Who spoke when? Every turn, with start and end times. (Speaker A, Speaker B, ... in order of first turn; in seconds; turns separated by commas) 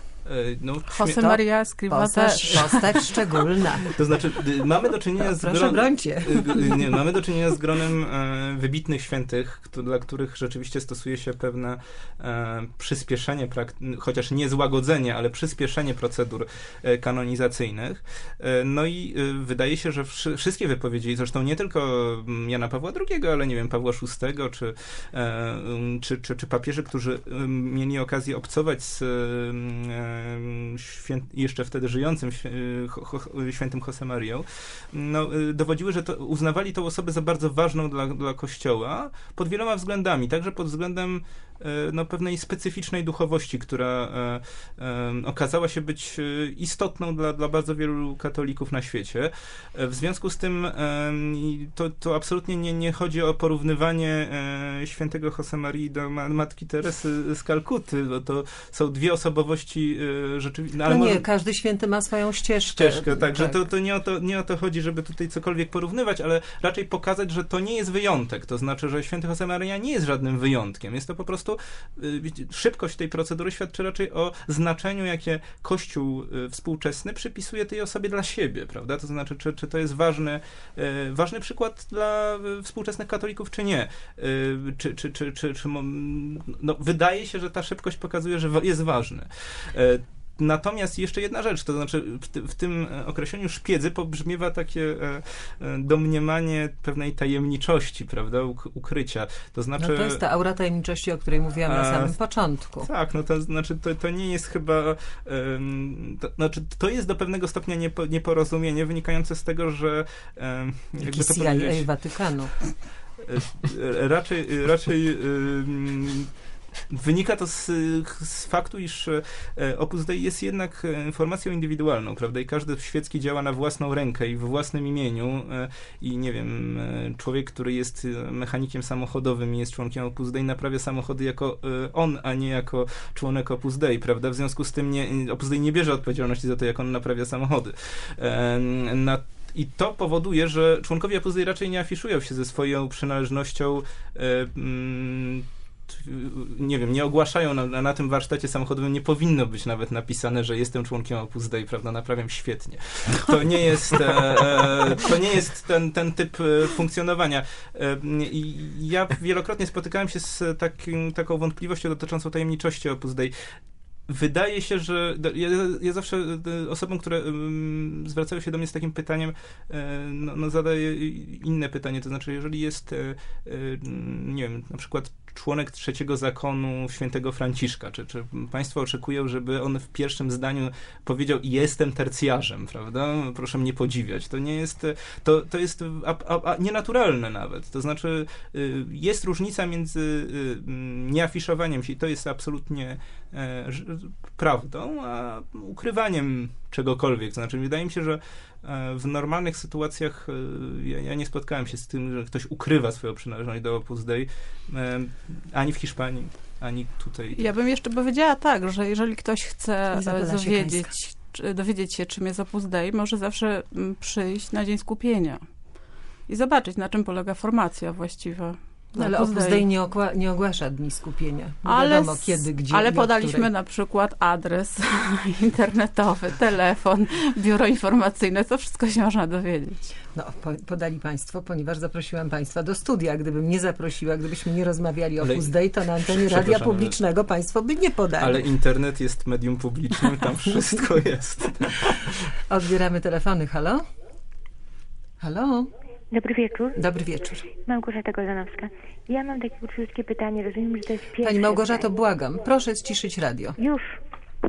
Speaker A: 0.2-1.4, Speaker B: 0.9-3.1, Speaker C: 1.9-3.9, Speaker A: 3.9-61.2, Speaker C: 5.2-6.8, Speaker C: 60.9-63.6, Speaker A: 62.7-100.2, Speaker C: 99.8-102.9, Speaker A: 101.6-102.1, Speaker A: 102.8-111.9, Speaker C: 111.0-112.5, Speaker A: 113.2-116.3, Speaker A: 116.9-163.3, Speaker A: 164.1-207.4, Speaker B: 207.3-215.4, Speaker C: 209.9-210.9, Speaker B: 216.3-219.6, Speaker C: 218.9-223.5, Speaker B: 221.6-229.8, Speaker C: 230.1-238.4, Speaker A: 235.2-237.0, Speaker A: 238.2-242.2, Speaker C: 242.5-243.8, Speaker C: 245.2-245.7, Speaker D: 246.1-246.8, Speaker C: 246.8-247.4, Speaker D: 247.5-251.9, Speaker C: 251.2-253.6, Speaker D: 253.6-254.0